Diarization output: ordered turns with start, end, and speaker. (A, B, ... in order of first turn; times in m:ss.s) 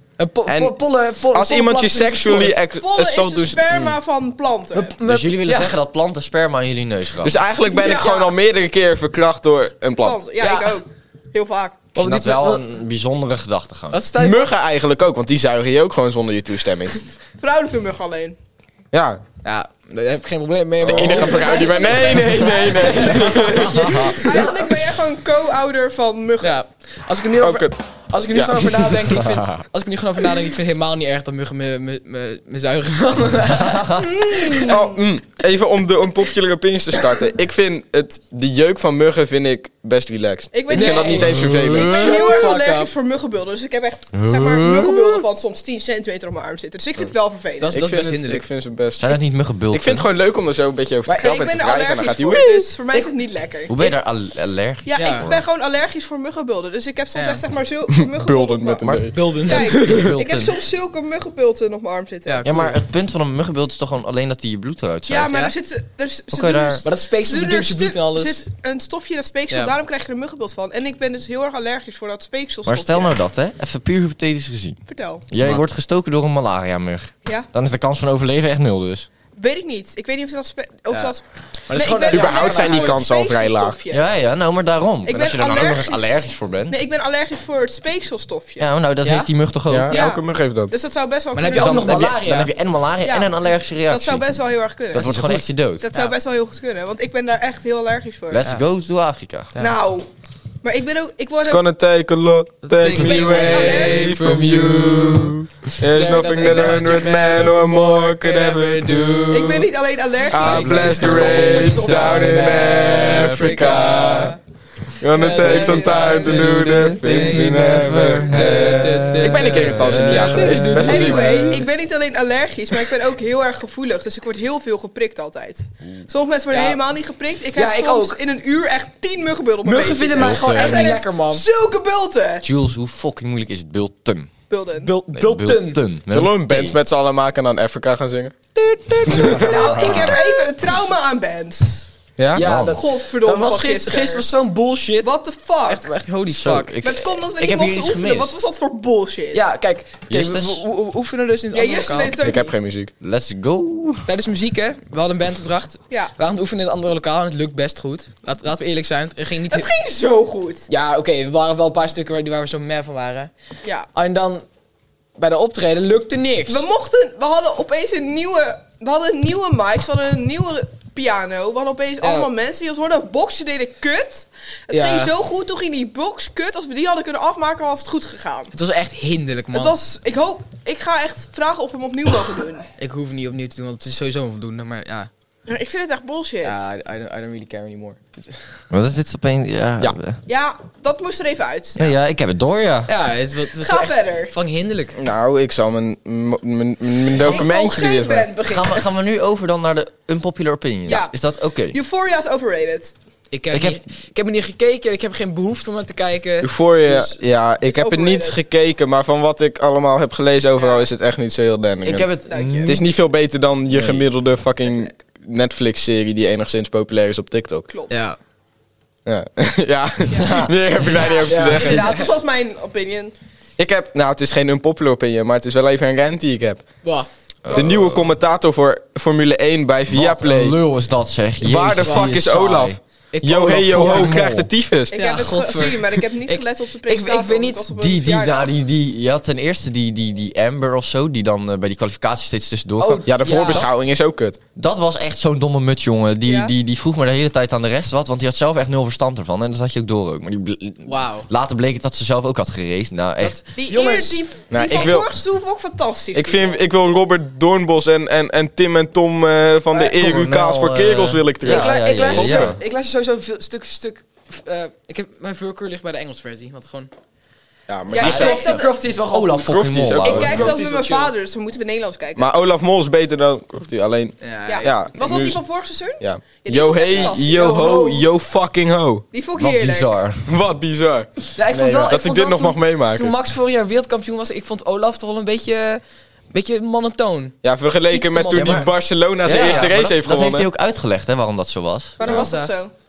0:00.2-0:02.6 A
0:00.5-0:00.8 B
0:01.3-0:04.0 B
0:02.8-0:05.0 C
0:04.7-0:05.8 A
0:05.0-0:07.4 D
0:07.2-0:10.2 B
0:07.6-0:08.3 C
0:10.0-0:11.8 C
0:10.4-0:10.8 A
0:12.0-0:14.0 D
0:12.0-0:12.6 A
0:13.9-0:14.5 A
0:14.2-0:17.0 B
0:17.4-0:18.4 C
0:18.9-0:19.2 B
0:19.4-0:24.8 A
0:20.8-0:24.2 B
0:21.0-0:26.6 C
0:26.4-0:34.6 A
0:27.4-0:27.8 B
0:28.3-0:29.0 B
0:29.3-0:29.6 D
0:33.8-0:34.0 D
0:34.0-0:35.0 C
0:34.5-0:42.2 B
0:40.5-0:47.8 C
0:40.7-0:42.9 A
0:41.4-0:42.2 D
0:44.2-0:45.2 D
0:47.6-0:48.5 A
0:47.7-0:49.2 B
0:49.0-0:50.1 D
0:49.7-0:52.7 B
0:51.1-0:51.4 A
0:51.2-0:54.0 C
0:53.7-0:55.4 D
0:54.8-0:59.0 C
0:55.0-0:55.3 A
0:57.1-0:57.4 A
0:57.9-0:59.5 B
0:58.8-0:59.1 D
0:59.1-1:00.0 A
0:59.5-1:02.5 C
0:59.6-1:00.6 D
1:02.3-1:02.8 A
1:02.4-1:05.3 D
1:05.1-1:13.2 C
1:06.3-1:06.8 D
1:06.8-1:08.4 A
1:09.5-1:09.8 A
1:12.7-1:19.1 D
1:14.9-1:15.2 C
1:19.4-1:24.1 C
1:20.9-1:21.2 A
1:21.7-1:23.1 A
1:22.1-1:23.8 B
1:23.9-1:26.8 D
1:25.1-1:28.7 C
1:28.6-1:30.0 D
1:29.0-1:29.3 A
1:29.7-1:30.7 B
1:29.9-1:32.2 C
1:31.3-1:32.5 A
1:31.5-1:34.3 D
1:33.0-1:38.4 C
1:34.9-1:35.9 D
1:34.9-1:35.4 A
1:38.3-1:39.5 D
1:39.6-1:40.1 C
1:40.6-1:41.6 C
1:41.5-1:49.7 B
1:42.6-1:49.6 A
1:43.0-1:44.2 C
1:49.3-1:51.6 C
1:50.3-1:54.4 B
1:50.4-1:54.4 A
1:50.5-1:53.6 D
1:53.7-1:54.3 C
1:55.0-2:01.6 B
1:55.1-1:56.5 C
1:55.2-2:01.7 A
1:56.3-2:01.0 D
2:00.8-2:12.4 C
2:06.5-2:06.8 A
2:07.5-2:08.2 A
2:09.6-2:11.4 A
2:10.2-2:11.0 D
2:12.4-2:14.3 D
2:14.5-2:14.9 C
2:14.8-2:15.8 A
2:15.1-2:16.8 D
2:16.1-2:18.4 B
2:18.6-2:20.0 A
2:19.1-2:19.5 B
2:19.1-2:20.2 D
2:19.3-2:21.9 C
2:22.2-2:22.4 B
2:22.4-2:26.8 A
2:22.4-2:22.8 D
2:22.6-2:24.2 C
2:25.0-2:25.9 C
2:26.3-2:28.4 D
2:26.8-2:29.5 C
2:29.3-2:32.2 A
2:30.1-2:30.6 D
2:31.5-2:32.6 C
2:32.2-2:32.9 B
2:33.0-2:34.1 D
2:34.1-2:39.7 A
2:39.5-2:40.7 C
2:40.7-2:43.3 A
2:43.9-2:44.4 A
2:45.2-2:46.7 A
2:46.5-2:58.5 C
2:52.0-2:52.3 A
2:54.7-2:55.1 A
2:58.5-2:59.8 A
2:59.5-3:02.7 C
3:02.8-3:05.1 A
3:05.5-3:06.7 C
3:06.4-3:08.6 A
3:08.7-3:10.2 D
3:10.3-3:11.9 C
3:11.8-3:12.9 D
3:12.9-3:15.0 A
3:13.6-3:14.3 C
3:15.0-3:18.3 B
3:17.2-3:18.9 C
3:18.4-3:21.8 D
3:20.9-3:21.1 C
3:21.7-3:22.9 C
3:23.3-3:27.2 A
3:23.5-3:23.8 D
3:26.4-3:32.1 B
3:27.6-3:28.4 C
3:30.6-3:30.9 C
3:31.8-3:32.8 D
3:32.3-3:32.8 C
3:32.6-3:37.7 B
3:37.7-3:38.0 C
3:37.9-3:38.2 A
3:39.1-3:41.9 B
3:40.1-3:43.1 C
3:40.2-3:40.5 D
3:41.0-3:42.1 A
3:43.6-3:46.6 B
3:46.8-3:47.7 A
3:47.4-3:48.1 D
3:47.5-3:50.6 B
3:49.9-3:52.8 D
3:51.4-3:55.0 B
3:51.8-3:54.2 A
3:53.6-3:54.5 D
3:54.9-3:58.5 C
3:54.9-3:57.7 A
3:57.7-4:03.1 D
4:02.8-4:03.7 A
4:03.1-4:04.4 B
4:04.6-4:13.4 D
4:06.3-4:06.5 C
4:10.9-4:11.3 A
4:13.2-4:14.2 A
4:13.6-4:16.6 C
4:14.5-4:15.1 B
4:16.1-4:22.6 B
4:19.8-4:22.6 D
4:21.4-4:26.9 A
4:27.7-4:28.4 B
4:27.9-4:28.7 C
4:27.9-4:31.1 A
4:28.0-4:30.5 D
4:29.4-4:30.6 B
4:30.0-4:32.3 C
4:32.2-4:35.4 B
4:34.2-4:34.7 A
4:34.5-4:37.6 C
4:36.0-4:39.0 B
4:37.0-4:38.0 A
4:39.1-4:39.9 C
4:39.4-4:40.3 D
4:40.2-4:43.2 B
4:41.4-4:48.7 A
4:47.4-4:50.5 B
4:49.2-4:52.0 D
4:49.3-4:49.7 A
4:52.0-4:52.7 C
4:52.0-4:52.5 A